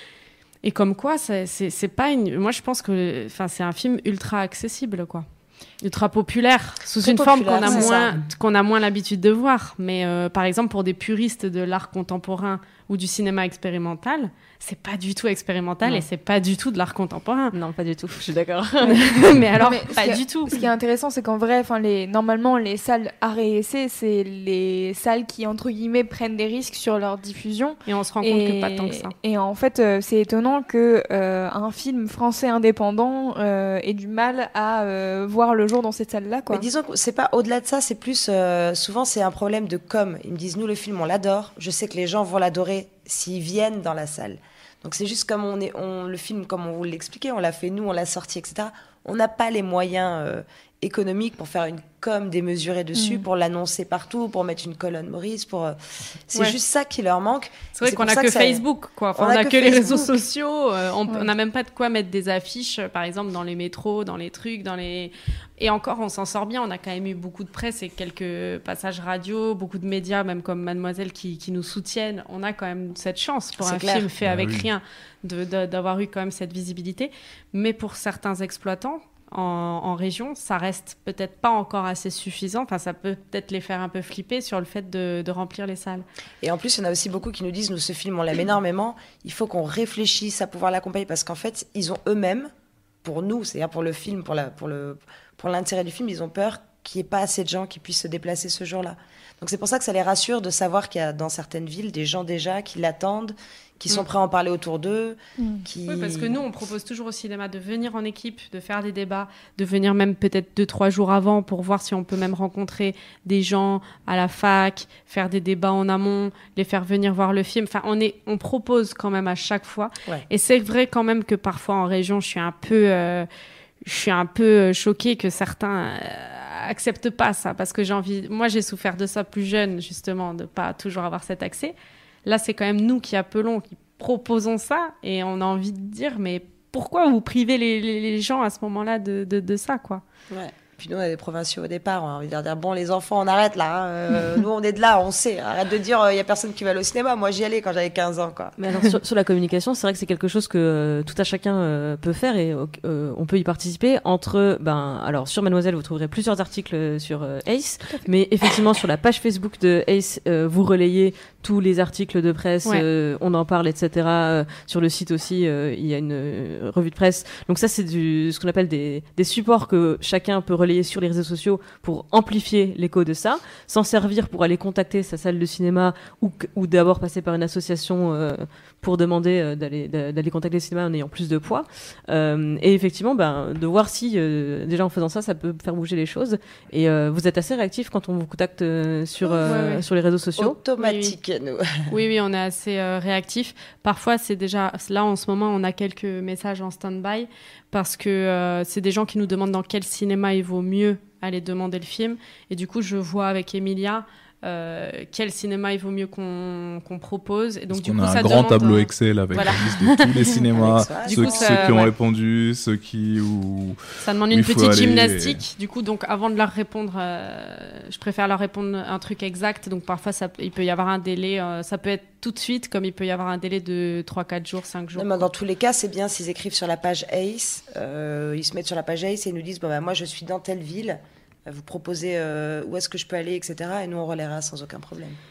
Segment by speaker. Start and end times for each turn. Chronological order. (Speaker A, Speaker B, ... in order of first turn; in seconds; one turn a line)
Speaker A: 0.6-5.2
Speaker A: 5.8-17.5
Speaker B: 7.0-8.2
Speaker C: 17.5-19.4
Speaker A: 18.8-20.6
Speaker D: 19.6-36.7
Speaker A: 27.9-29.1
Speaker B: 36.5-55.8
Speaker D: 52.9-53.2
Speaker B: 56.3-58.6
Speaker A: 57.7-86.0
Speaker B: 59.2-60.2
Speaker B: 73.6-74.1
Speaker E: 74.2-74.7
Speaker B: 86.4-92.5
Speaker B: 93.0-106.4
Speaker D: 105.4-105.6
Speaker A: 105.9-123.3
Speaker A: 123.8-140.0
Speaker B: 140.3-148.5
Speaker C: 148.6-190.6
Speaker A: 189.4-189.8
Speaker B: 190.4-191.9
Speaker A: 190.8-191.2
Speaker A: 191.9-210.4
Speaker E: 207.7-215.4
Speaker B: 210.5-211.9
Speaker A: 211.1-211.9
Speaker A: 214.0-225.3
Speaker B: 225.0-235.2